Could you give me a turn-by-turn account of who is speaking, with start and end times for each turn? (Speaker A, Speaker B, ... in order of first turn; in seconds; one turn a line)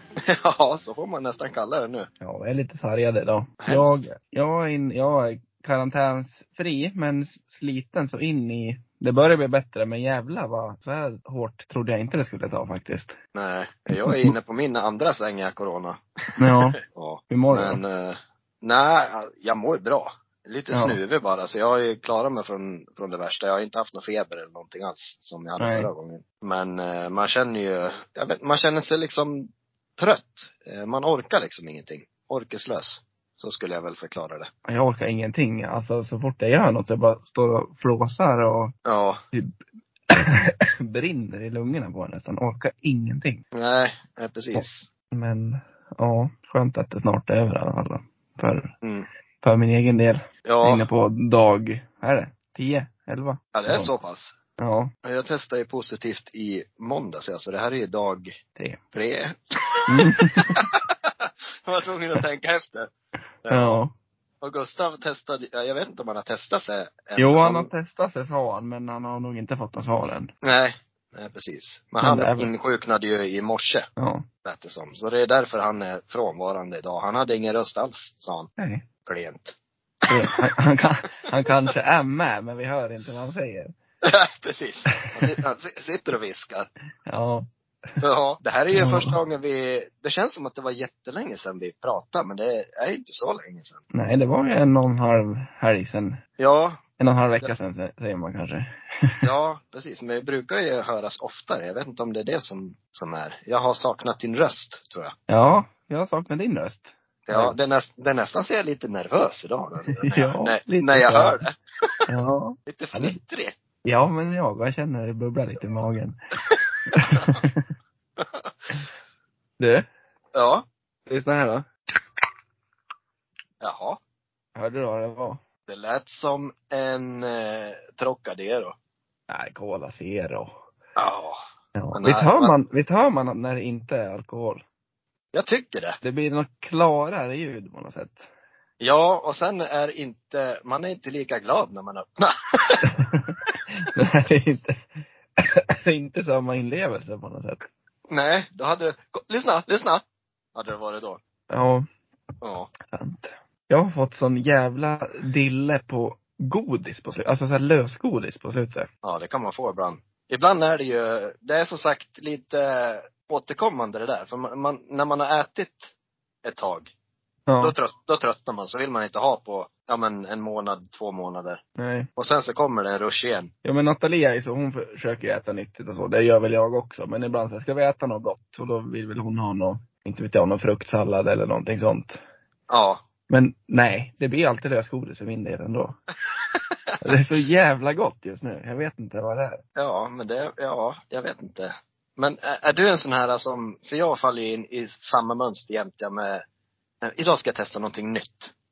Speaker A: 0.2-2.1
Speaker B: 2.2-13.2
Speaker A: 3.6-4.0
Speaker A: 13.3-34.5
Speaker B: 13.9-14.3
Speaker B: 16.4-16.8
Speaker B: 17.3-17.8
Speaker B: 20.7-21.0
Speaker B: 25.6-25.9
Speaker B: 34.6-38.7
Speaker A: 38.8-39.2
Speaker B: 40.1-43.4
Speaker A: 43.5-44.9
Speaker B: 44.5-48.7
Speaker A: 48.8-49.1
Speaker B: 49.4-53.9
Speaker A: 50.4-50.9
Speaker A: 53.5-54.4
Speaker B: 54.6-54.9
Speaker A: 55.0-58.4
Speaker A: 58.9-62.9
Speaker B: 59.9-60.7
Speaker A: 63.4-63.8
Speaker B: 63.5-63.9
Speaker A: 64.4-67.7
Speaker B: 67.2-70.3
Speaker A: 70.4-73.9
Speaker B: 72.0-72.5
Speaker B: 74.0-74.2
Speaker A: 74.4-78.5
Speaker B: 78.6-78.8
Speaker A: 79.0-79.5
Speaker B: 80.1-83.7
Speaker A: 84.0-86.7
Speaker B: 87.0-87.5
Speaker A: 88.0-93.8
Speaker B: 88.7-89.2
Speaker B: 93.9-96.2
Speaker A: 96.4-96.8
Speaker B: 97.0-99.2
Speaker A: 99.2-105.1
Speaker B: 105.3-107.5
Speaker A: 107.3-111.9
Speaker B: 109.9-111.4
Speaker B: 112.1-113.1
Speaker A: 112.7-113.5
Speaker B: 113.8-116.2
Speaker B: 116.9-117.6
Speaker A: 117.1-117.4
Speaker A: 118.2-118.5
Speaker B: 119.6-119.8
Speaker A: 120.3-120.7
Speaker B: 121.1-121.7
Speaker A: 123.6-124.0
Speaker B: 124.5-125.4
Speaker A: 125.7-128.7
Speaker B: 129.3-130.6
Speaker A: 130.9-131.4
Speaker B: 131.8-134.6
Speaker A: 131.9-132.5
Speaker A: 135.3-136.0
Speaker B: 136.0-138.2
Speaker A: 138.8-142.9
Speaker B: 142.9-144.8
Speaker B: 145.4-147.6
Speaker A: 148.1-150.0
Speaker A: 150.5-151.2
Speaker B: 151.5-151.9
Speaker A: 152.4-152.7
Speaker B: 152.9-158.9
Speaker A: 159.0-165.9
Speaker A: 166.4-166.9
Speaker B: 167.5-167.8
Speaker A: 167.6-171.6
Speaker B: 171.8-172.1
Speaker A: 172.2-173.5
Speaker B: 173.6-182.2
Speaker A: 182.7-183.0
Speaker B: 183.3-186.0
Speaker B: 187.0-189.6
Speaker A: 189.8-196.4
Speaker A: 197.0-198.5